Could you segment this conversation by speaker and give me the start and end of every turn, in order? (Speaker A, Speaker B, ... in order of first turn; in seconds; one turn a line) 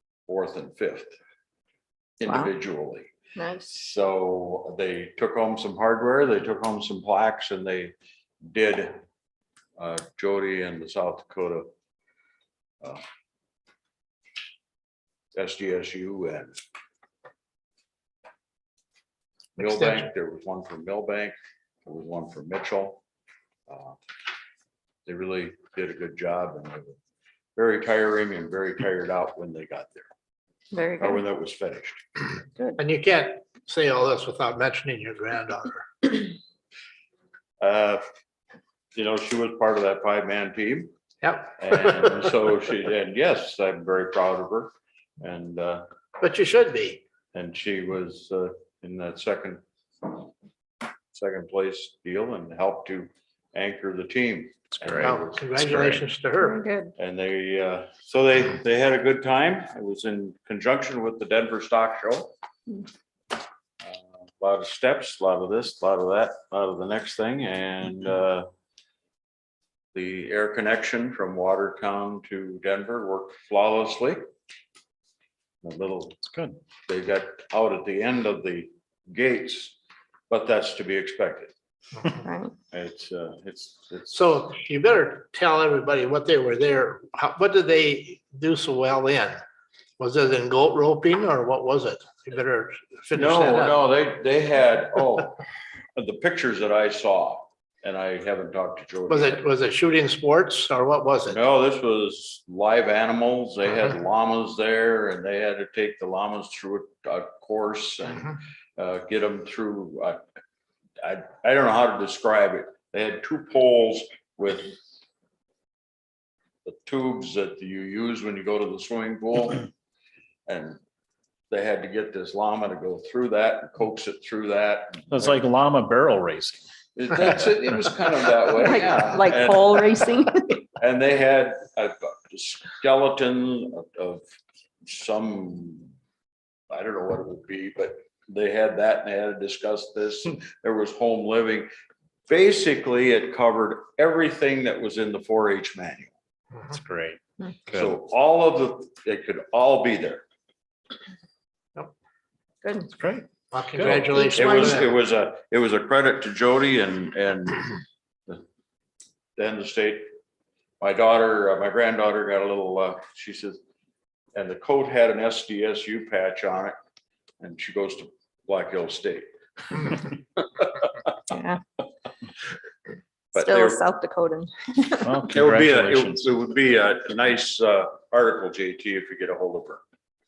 Speaker A: 0.3-1.1
Speaker A: 2.2-3.1
Speaker B: 3.4-3.7
Speaker A: 3.7-7.9
Speaker A: 8.5-9.0
Speaker A: 9.8-11.7
Speaker A: 15.3-16.5
Speaker A: 19.6-23.0
Speaker A: 23.7-24.0
Speaker A: 25.1-27.0
Speaker A: 27.6-30.1
Speaker B: 30.7-31.2
Speaker A: 31.0-32.0
Speaker C: 32.8-36.2
Speaker A: 37.6-38.0
Speaker A: 38.9-40.9
Speaker C: 41.2-42.2
Speaker A: 41.5-45.8
Speaker C: 46.2-47.0
Speaker A: 47.3-50.2
Speaker A: 51.1-56.0
Speaker D: 54.8-55.1
Speaker C: 55.0-56.6
Speaker B: 56.4-56.9
Speaker A: 57.0-62.3
Speaker A: 63.8-68.5
Speaker A: 69.9-74.2
Speaker A: 75.6-76.2
Speaker D: 76.2-76.6
Speaker A: 76.9-79.8
Speaker A: 80.3-81.5
Speaker B: 82.2-82.5
Speaker A: 82.7-84.2
Speaker C: 84.1-89.4
Speaker C: 90.0-93.8
Speaker A: 93.1-95.4
Speaker A: 96.0-99.4
Speaker C: 99.1-101.4
Speaker A: 101.3-110.2
Speaker A: 111.0-114.8
Speaker A: 116.6-119.7
Speaker A: 120.5-120.8
Speaker A: 121.5-125.4
Speaker D: 125.1-126.7
Speaker A: 127.0-129.8
Speaker B: 128.6-130.5
Speaker A: 130.8-134.2
Speaker A: 134.8-135.9
Speaker A: 136.7-141.7
Speaker A: 142.3-146.1
Speaker D: 146.7-147.9
Speaker A: 147.7-150.2
Speaker B: 152.6-152.9
Speaker D: 152.9-154.0
Speaker C: 153.5-154.9
Speaker A: 153.8-157.7
Speaker B: 154.1-154.8
Speaker A: 159.3-160.1
Speaker A: 160.8-163.6
Speaker A: 164.3-166.8
Speaker A: 167.4-170.7
Speaker B: 171.3-171.6
Speaker B: 173.3-175.1
Speaker A: 173.3-173.8
Speaker D: 175.0-176.2
Speaker A: 175.3-179.8